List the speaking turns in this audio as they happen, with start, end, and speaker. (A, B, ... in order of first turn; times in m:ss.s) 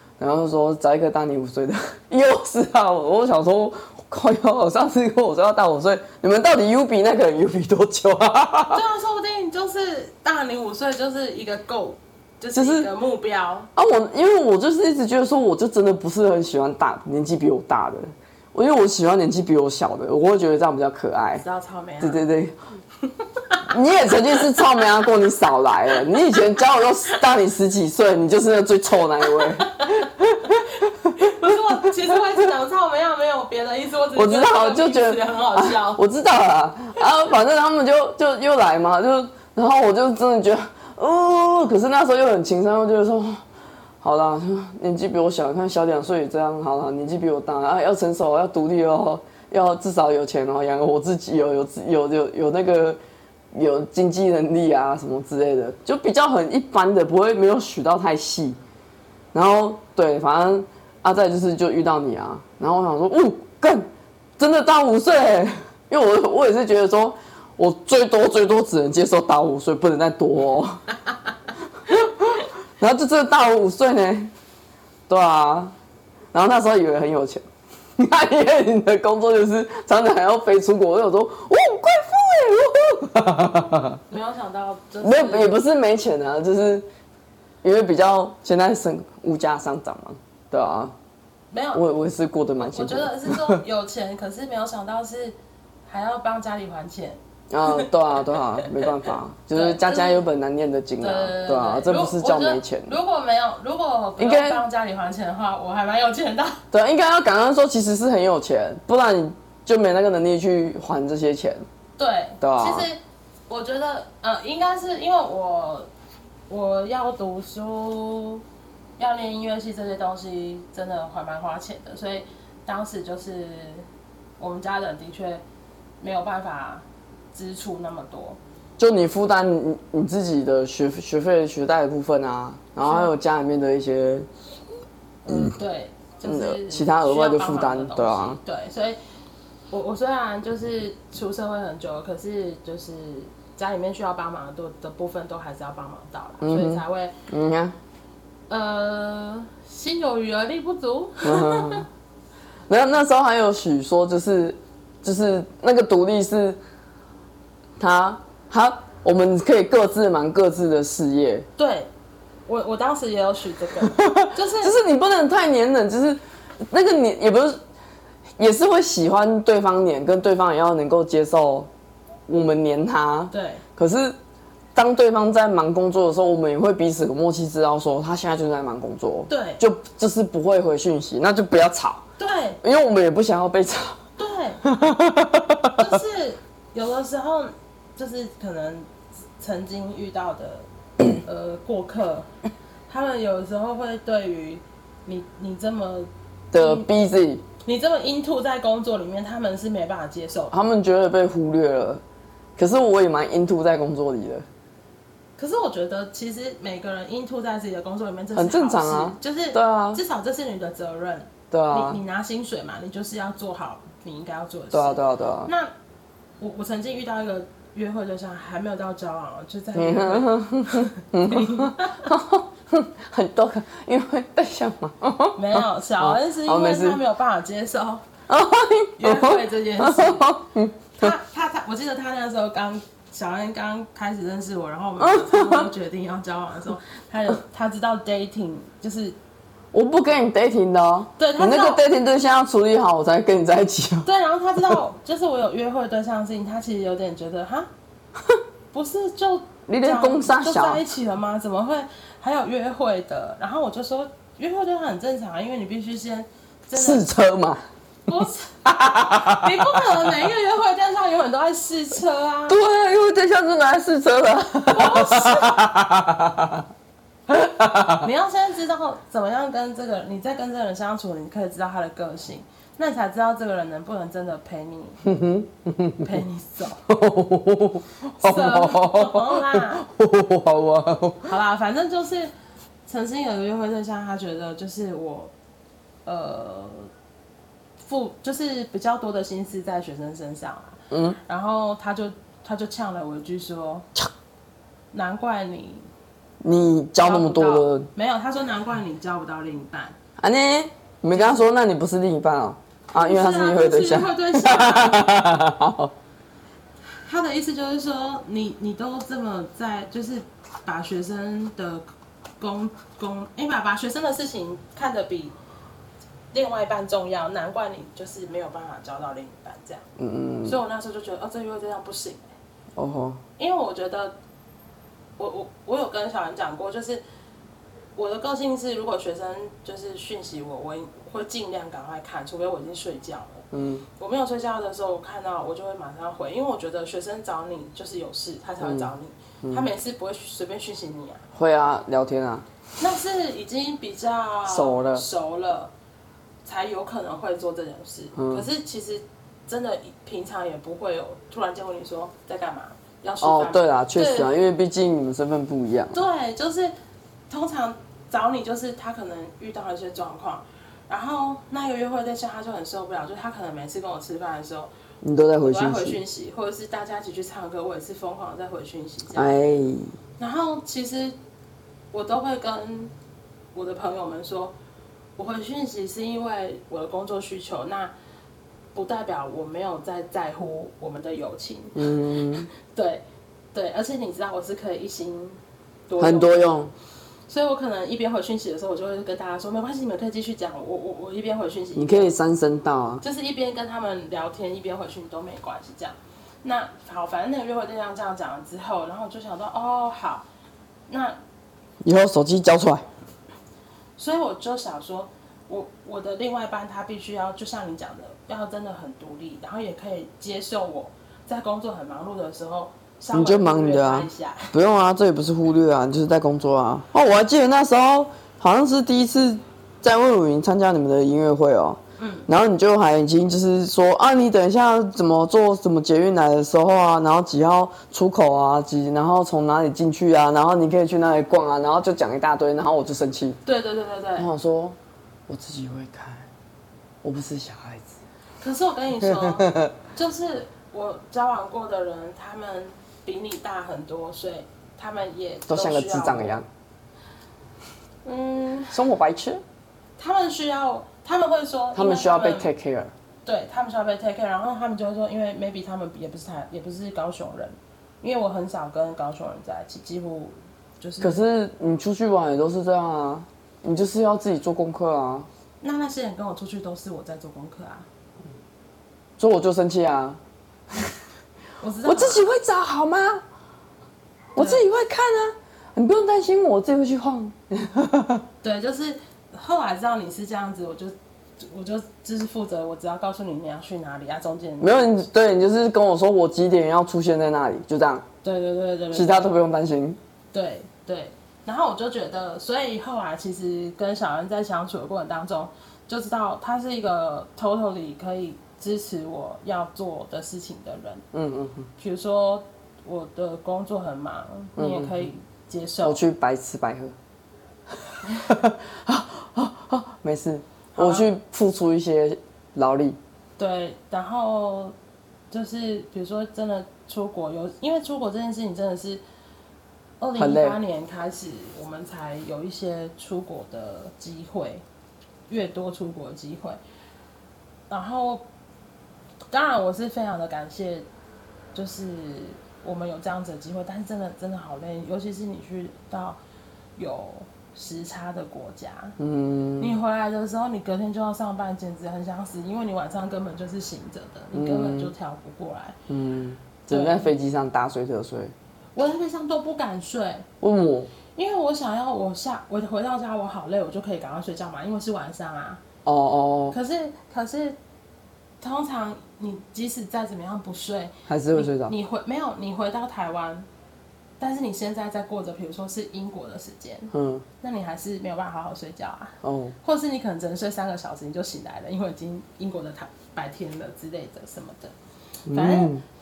0:00.2-0:08.8 A
0:08.7-0:13.7 B
0:12.5-0:12.9 A
0:13.8-0:21.4 A
0:21.4-0:22.2 B
0:22.0-0:22.6 A
0:23.6-0:31.3 A
0:29.2-0:36.0 B
0:34.2-0:43.4 A
0:44.0-0:53.0 A
0:53.5-0:58.6 A
0:59.3-1:03.9 A
1:04.4-1:10.8 A
1:11.9-1:14.3 A
1:15.1-1:15.7 A
1:16.3-1:17.4 A
1:18.0-1:24.0 A
1:24.1-1:25.6 B
1:25.0-1:26.9 A
1:27.6-1:30.9 A
1:31.5-1:31.9 B
1:31.7-1:33.6 A
1:32.6-1:35.4 B
1:35.9-1:40.2 B
1:37.5-1:43.0 A
1:41.0-1:46.6 B
1:44.2-1:44.6 A
1:46.7-1:51.6 A
1:52.0-1:55.9 B
1:52.4-1:52.9 A
1:56.5-1:58.4 B
1:59.0-2:03.9 B
2:04.4-2:05.4 B
2:06.0-2:08.4 B
2:08.8-2:14.3 A
2:12.8-2:13.1 B
2:15.2-2:19.0 B
2:16.2-2:18.4 A
2:19.7-2:27.2 B
2:26.4-2:27.8 A
2:28.5-2:31.8 B
2:31.2-2:31.9 A
2:32.7-2:36.6 A
2:37.8-2:41.5 A
2:41.6-2:41.9 B
2:42.5-2:44.8 B
2:43.9-2:47.6 A
2:48.4-2:51.7 A
2:52.3-2:54.2 A
2:53.3-2:53.6 B
2:54.8-3:02.0 A
2:59.3-2:59.6 B
3:02.2-3:02.6 B
3:02.6-3:04.0 A
3:04.2-3:04.6 B
3:04.6-3:05.9 A
3:05.8-3:12.3 B
3:12.9-3:16.9 B
3:16.5-3:17.4 A
3:17.6-3:20.5 B
3:20.5-3:22.0 A
3:22.6-3:24.4 A
3:25.4-3:35.7 B
3:28.4-3:30.0 A
3:31.5-3:32.0 A
3:34.7-3:35.5 A
3:36.4-3:42.1 B
3:39.8-3:47.0 A
3:45.4-3:48.0 B
3:48.3-3:51.2 A
3:49.0-3:50.3 B
3:51.0-3:59.2 B
3:55.0-3:55.7 A
3:59.7-4:04.1 A
4:01.2-4:01.8 B
4:04.0-4:07.7 B
4:08.7-4:17.1 B
4:09.7-4:10.8 A
4:16.7-4:17.6 A
4:18.1-4:22.6 B
4:18.6-4:19.8 A
4:22.5-4:26.7 A
4:24.7-4:25.6 B
4:27.3-4:28.1 A
4:28.0-4:35.0 B
4:35.0-4:36.2 A
4:36.0-4:36.9 B
4:36.9-4:41.3 A
4:38.2-4:39.9 B
4:41.3-4:42.3 B
4:42.9-4:45.3 B
4:46.1-4:46.9 B
4:47.8-4:53.9 B
4:50.9-4:51.2 A
4:54.9-4:55.9 B
4:56.4-4:57.9 A
4:57.0-5:00.0 B
5:00.2-5:05.9 A
5:01.1-5:01.5 B
5:02.9-5:05.1 B
5:06.8-5:11.9 B
5:12.4-5:15.4 B
5:16.3-5:19.8 B
5:20.0-5:20.6 A
5:20.4-5:22.3 B
5:22.8-5:23.2 A
5:23.4-5:24.2 B
5:25.2-5:27.0 B
5:28.0-5:41.2 B
5:33.5-5:33.8 A
5:38.6-5:38.9 A
5:41.3-5:42.5 A
5:42.8-5:45.7 B
5:44.5-5:45.1 A
5:46.4-5:54.3 B
5:48.2-5:48.4 A
5:53.2-5:56.0 A
5:55.9-5:56.7 B
5:57.3-6:04.7 B
6:05.0-6:06.0 A
6:05.4-6:09.4 B
6:09.1-6:10.0 A
6:10.2-6:11.2 B
6:11.9-6:12.9 B
6:13.5-6:14.5 B
6:15.2-6:17.9 B
6:18.8-6:23.0 B
6:21.8-6:22.5 A
6:23.5-6:26.6 B
6:26.0-6:26.7 A
6:27.3-6:32.1 B
6:31.8-6:33.0 A
6:33.0-6:40.3 B
6:40.9-6:41.2 B
6:41.8-6:42.9 A
6:44.0-6:54.5 B
6:53.1-7:13.4 A
7:02.0-7:02.3 B
7:13.4-7:14.3 B
7:14.2-7:14.8 A
7:15.3-7:16.3 A
7:17.0-7:18.0 A
7:18.4-7:26.4 B
7:19.0-7:19.7 A
7:25.5-7:26.5 A
7:28.0-7:28.8 B
7:28.7-7:29.4 A
7:30.0-7:32.5 B
7:31.7-7:32.9 A
7:33.2-7:41.2 B
7:41.0-7:45.3 A
7:45.6-7:47.9 B
7:49.2-7:50.2 A
7:51.6-7:52.3 B
7:51.8-7:53.2 A
7:54.4-7:58.2 A
7:54.4-7:54.6 B
7:58.4-8:05.0 B
8:04.6-8:08.0 A
8:08.2-8:09.3 B
8:08.9-8:10.0 A
8:10.3-8:21.0 B
8:21.1-8:21.7 A
8:21.8-8:26.0 B
8:24.6-8:25.1 A
8:25.8-8:26.9 A
8:27.9-8:33.0 A
8:30.8-8:31.1 B
8:33.4-8:34.8 B
8:35.3-8:39.0 B
8:40.0-8:44.6 B
8:40.2-8:40.6 A
8:45.3-8:46.6 B
8:47.7-8:48.2 B
8:49.3-8:50.9 B
8:51.6-8:56.2 B
8:56.8-8:59.0 B
8:59.0-8:59.8 A
8:59.6-9:05.8 B
9:04.3-9:04.9 A
9:05.9-9:08.3 A
9:06.7-9:07.1 B
9:08.8-9:10.3 B
9:10.4-9:10.9 A
9:11.2-9:15.6 B
9:15.8-9:16.6 A
9:16.5-9:17.6 B
9:18.4-9:23.5 B
9:21.1-9:21.7 A
9:24.2-9:34.8 B
9:26.9-9:27.2 A
9:29.2-9:29.6 A
9:35.3-9:35.8 A
9:35.3-9:35.7 B